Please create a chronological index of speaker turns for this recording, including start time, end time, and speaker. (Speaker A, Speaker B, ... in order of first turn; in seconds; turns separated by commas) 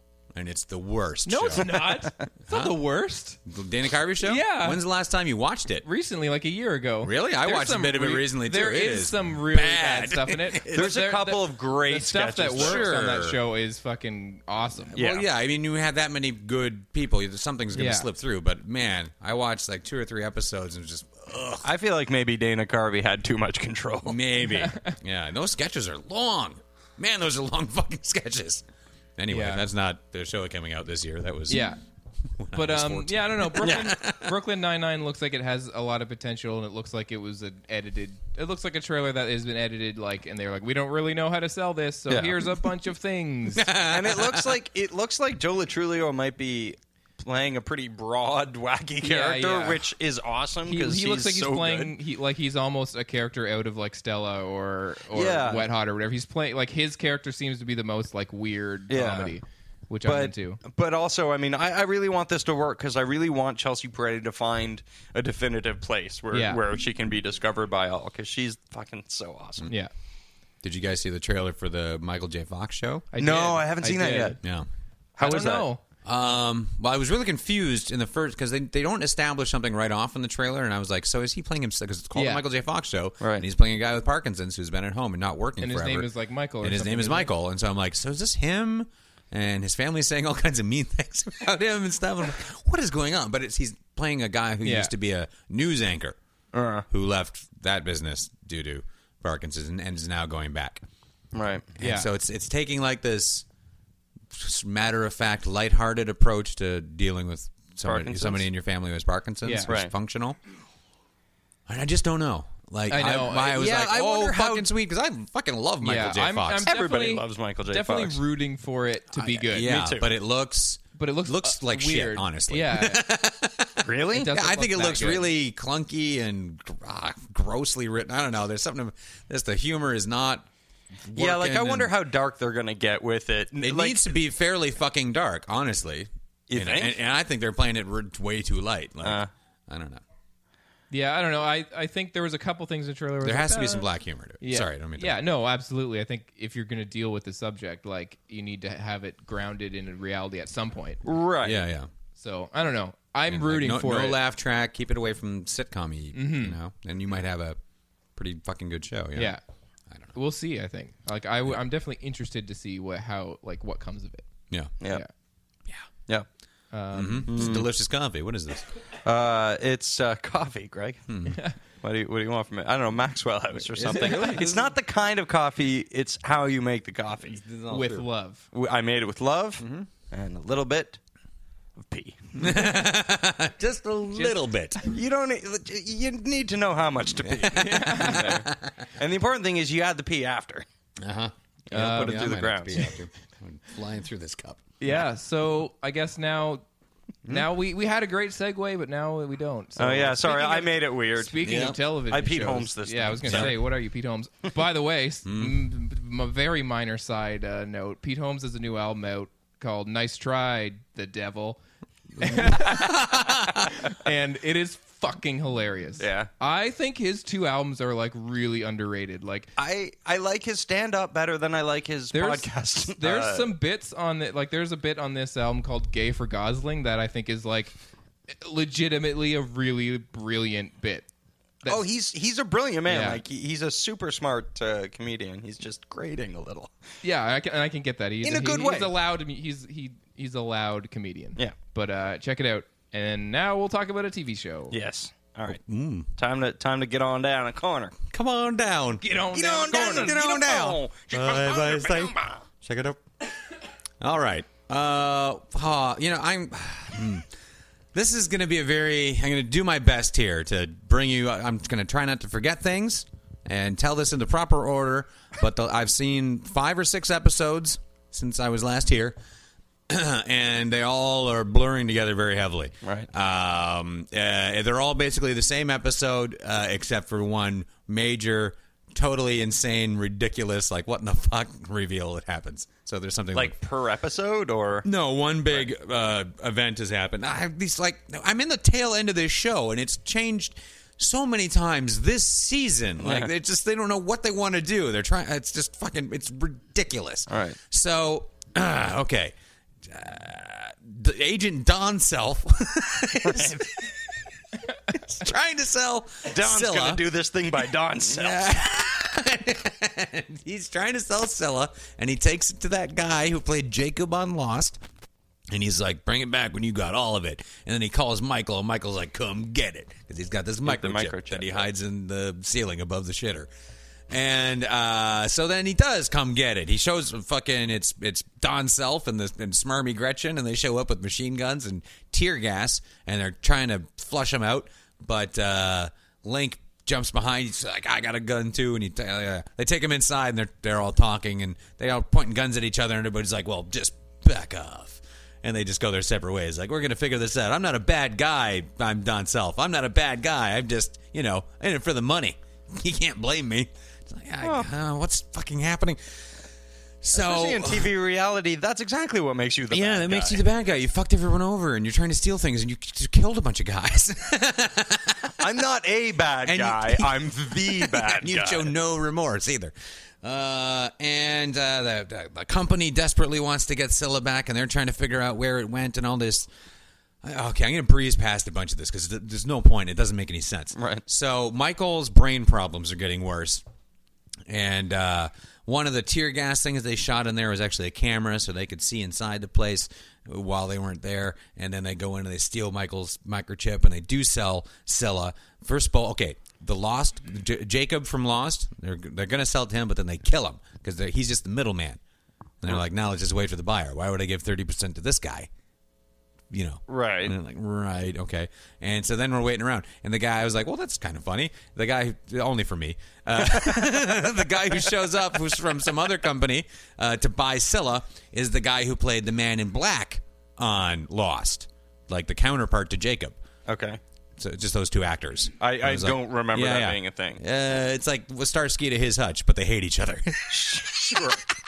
Speaker A: 0.3-1.7, Speaker B: 1.2-3.4, Speaker C: 1.6-2.1, Speaker A: 2.5-2.8, Speaker A: 3.4-5.8, Speaker B: 4.2-4.8, Speaker B: 5.8-14.9, Speaker A: 7.0-10.9, Speaker C: 10.7-12.9, Speaker A: 12.5-13.4, Speaker C: 14.9-15.3, Speaker A: 14.9-21.7, Speaker B: 17.7-18.1, Speaker C: 21.6-24.2, Speaker A: 24.0-28.6, Speaker B: 24.5-24.9, Speaker A: 29.2-31.7, Speaker B: 29.3-29.6, Speaker B: 31.5-31.8, Speaker A: 32.4-34.3, Speaker B: 32.5-43.7, Speaker C: 33.6-34.0, Speaker C: 42.1-42.4, Speaker A: 43.5-44.5, Speaker C: 43.8-51.9, Speaker B: 49.0-49.8, Speaker B: 50.7-60.6, Speaker C: 55.1-55.7, Speaker C: 58.9-59.4, Speaker C: 60.0-69.7, Speaker B: 66.3-66.6, Speaker A: 70.6-73.1, Speaker B: 73.1-74.4, Speaker C: 73.2-74.4, Speaker A: 74.4-74.7, Speaker C: 75.2-75.7, Speaker B: 75.2-75.8, Speaker A: 76.0-86.1, Speaker B: 82.1-82.4, Speaker C: 83.2-83.5, Speaker B: 85.6-87.3, Speaker A: 86.6-96.2, Speaker B: 94.6-94.9, Speaker C: 96.5-96.9, Speaker A: 96.9-100.8, Speaker C: 101.3-101.7, Speaker A: 101.8-103.5, Speaker B: 101.8-102.1, Speaker A: 104.3-110.4, Speaker C: 107.8-108.5, Speaker B: 109.4-109.7, Speaker A: 111.7-116.7, Speaker B: 112.9-114.7, Speaker B: 115.8-119.7, Speaker C: 116.7-118.2, Speaker A: 119.2-130.5, Speaker C: 119.6-120.1, Speaker B: 121.0-123.0, Speaker C: 123.8-124.3, Speaker B: 124.1-125.2, Speaker A: 131.1-131.9, Speaker C: 131.1-134.1, Speaker A: 133.6-140.0, Speaker C: 136.5-137.0, Speaker C: 139.0-139.3, Speaker B: 140.9-143.9, Speaker A: 143.2-145.2, Speaker B: 144.4-151.0, Speaker C: 151.0-151.6, Speaker A: 151.4-151.9, Speaker B: 152.2-154.2, Speaker A: 153.3-157.6, Speaker B: 156.1-156.6, Speaker A: 158.2-159.4, Speaker B: 159.1-159.4, Speaker A: 159.9-160.1, Speaker B: 160.1-164.2, Speaker B: 166.7-167.4, Speaker A: 166.9-168.6, Speaker C: 167.3-167.7, Speaker C: 169.0-171.0, Speaker A: 171.1-171.4, Speaker C: 171.8-177.4, Speaker A: 173.7-174.7, Speaker B: 173.9-174.4, Speaker A: 177.3-178.1, Speaker B: 177.7-178.4, Speaker C: 178.5-181.0, Speaker A: 179.6-179.9, Speaker C: 181.8-182.4, Speaker A: 182.3-184.8, Speaker C: 184.8-190.6, Speaker A: 187.2-188.9, Speaker B: 187.5-188.4, Speaker A: 191.0-194.6, Speaker C: 191.7-192.9, Speaker B: 194.8-196.6, Speaker B: 197.3-211.6, Speaker C: 199.8-201.3, Speaker A: 201.4-201.8, Speaker C: 202.1-203.6, Speaker A: 203.2-203.6, Speaker A: 205.2-205.6, Speaker A: 212.2-213.8, Speaker B: 212.2-219.5, Speaker C: 216.0-216.3, Speaker C: 219.6-223.5, Speaker B: 222.1-227.7, Speaker B: 228.3-231.1, Speaker C: 231.7-236.7, Speaker B: 232.9-233.2, Speaker B: 237.0-244.7, Speaker C: 238.2-238.9, Speaker C: 244.7-245.6, Speaker A: 245.5-246.1, Speaker C: 246.2-248.0, Speaker A: 248.1-249.0, Speaker B: 249.0-250.2, Speaker C: 249.3-252.4, Speaker A: 249.7-253.0, Speaker A: 254.0-257.2, Speaker A: 257.9-269.2, Speaker A: 269.9-283.6, Speaker C: 272.8-273.1, Speaker C: 283.3-284.9, Speaker A: 284.8-303.9, Speaker C: 293.0-293.3, Speaker C: 297.3-297.6, Speaker C: 303.2-303.6, Speaker A: 304.9-307.0, Speaker C: 306.2-308.5, Speaker A: 308.0-314.8, Speaker A: 315.5-323.5, Speaker C: 320.6-321.7, Speaker A: 324.1-356.2, Speaker C: 354.4-354.7, Speaker A: 357.0-357.9, Speaker C: 357.1-360.4, Speaker A: 359.7-365.3, Speaker C: 365.4-368.7, Speaker A: 366.4-376.5, Speaker A: 377.2-383.6, Speaker C: 380.8-381.0, Speaker A: 384.5-402.0, Speaker A: 402.6-405.5, Speaker A: 406.5-423.4, Speaker C: 406.9-407.3, Speaker C: 413.5-414.2, Speaker C: 423.7-424.0, Speaker A: 424.4-431.3, Speaker C: 425.6-427.4, Speaker C: 430.5-431.4